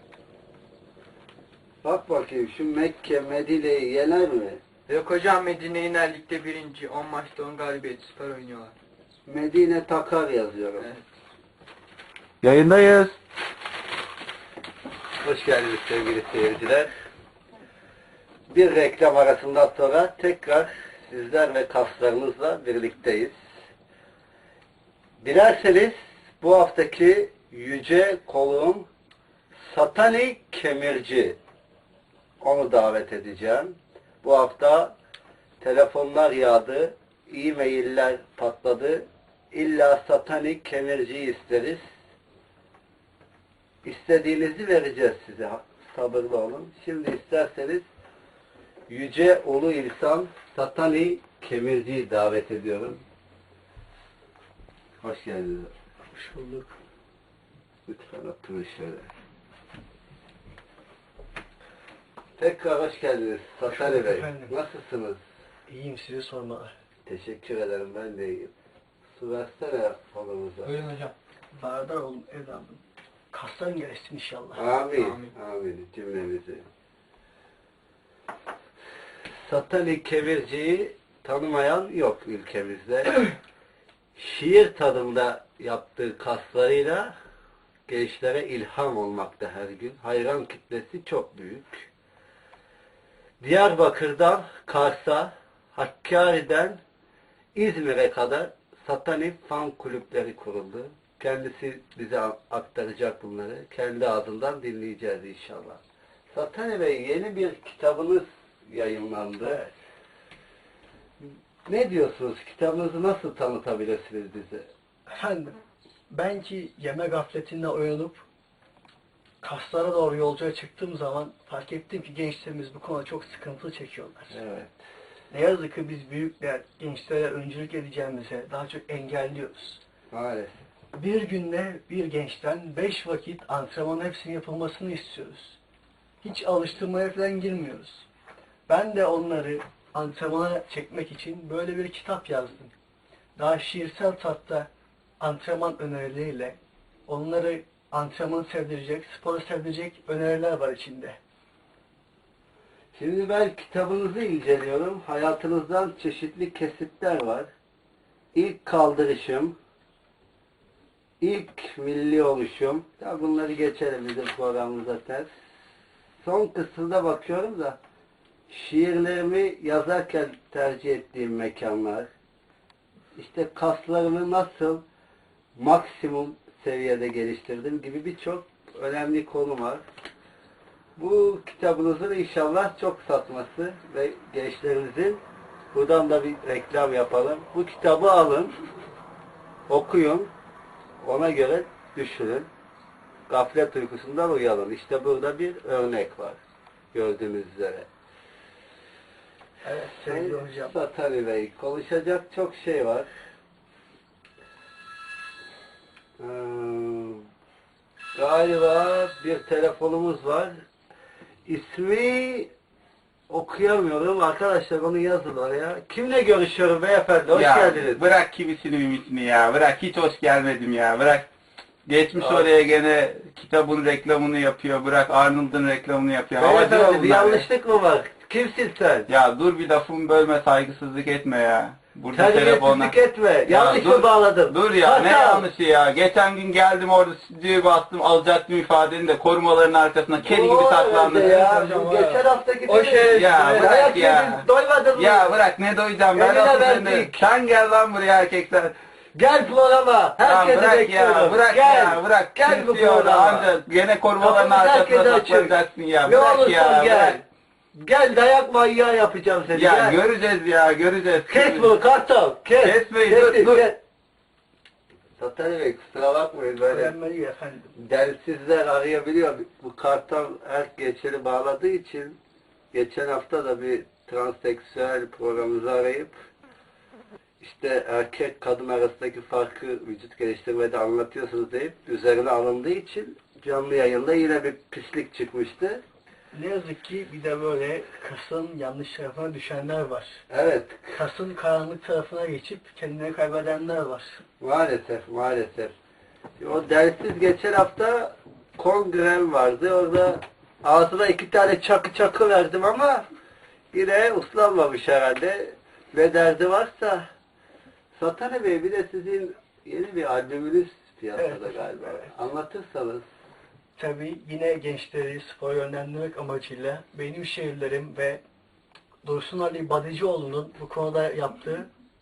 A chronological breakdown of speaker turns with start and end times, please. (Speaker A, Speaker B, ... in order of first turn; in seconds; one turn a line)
Speaker A: 1.8-4.6
Speaker B: 4.9-8.8
Speaker A: 9.2-10.9
Speaker B: 10.8-11.0
Speaker A: 15.2-16.9
Speaker A: 18.5-23.3
Speaker A: 25.2-28.9
Speaker A: 29.7-31.4
Speaker A: 32.4-34.9
Speaker A: 35.6-41.8
Speaker A: 43.8-47.8
Speaker A: 48.9-53.0
Speaker A: 55.0-55.7
Speaker C: 56.1-56.8
Speaker A: 57.9-59.1
Speaker A: 62.4-65.2
Speaker C: 63.6-64.5
Speaker C: 65.7-66.7
Speaker A: 67.0-68.5
Speaker A: 69.2-70.7
Speaker B: 70.6-71.1
Speaker C: 71.5-74.6
Speaker A: 74.5-76.7
Speaker B: 75.0-75.3
Speaker A: 79.4-83.2
Speaker A: 84.2-87.1
Speaker A: 87.9-91.9
Speaker A: 93.4-96.8
Speaker A: 97.5-105.8
Speaker A: 106.3-109.7
Speaker A: 111.7-114.7
Speaker C: 115.1-115.6
Speaker C: 116.1-118.2
Speaker C: 119.4-124.3
Speaker A: 124.3-124.7
Speaker C: 125.3-129.8
Speaker A: 130.1-130.6
Speaker C: 130.9-135.6
Speaker C: 136.2-138.1
Speaker C: 138.7-142.7
Speaker C: 143.3-151.2
Speaker A: 152.9-157.5
Speaker A: 158.3-159.5
Speaker A: 161.2-165.3
Speaker A: 166.2-167.8
Speaker A: 168.5-172.1
Speaker A: 173.1-174.8
Speaker A: 175.5-179.8
Speaker A: 181.0-185.2
Speaker A: 185.7-188.5
Speaker A: 189.7-190.3
Speaker A: 191.0-192.5
Speaker A: 193.3-196.4
Speaker A: 196.9-197.9
Speaker C: 199.6-200.8
Speaker A: 200.0-203.1
Speaker A: 206.2-207.2
Speaker A: 208.1-210.5
Speaker A: 211.4-212.5
Speaker A: 213.3-218.0
Speaker D: 217.3-221.3
Speaker D: 221.8-227.5
Speaker A: 222.2-222.5
Speaker A: 226.4-229.1
Speaker D: 229.1-241.4
Speaker A: 232.1-235.4
Speaker A: 240.2-245.3
Speaker B: 241.3-244.0
Speaker D: 243.1-248.7
Speaker A: 246.1-247.2
Speaker A: 249.1-253.5
Speaker D: 250.2-257.2
Speaker A: 254.2-257.2
Speaker A: 257.7-260.0
Speaker D: 259.5-261.7
Speaker A: 261.3-263.8
Speaker D: 262.6-263.7
Speaker A: 265.2-266.9
Speaker C: 266.7-267.7
Speaker A: 267.7-272.1
Speaker A: 272.7-276.1
Speaker A: 277.4-285.8
Speaker C: 286.3-290.2
Speaker A: 290.3-291.0
Speaker C: 290.9-294.2
Speaker A: 294.4-295.7
Speaker A: 296.4-303.1
Speaker A: 303.7-307.1
Speaker A: 307.9-313.0
Speaker C: 311.1-312.1
Speaker C: 313.8-318.2
Speaker C: 319.0-321.7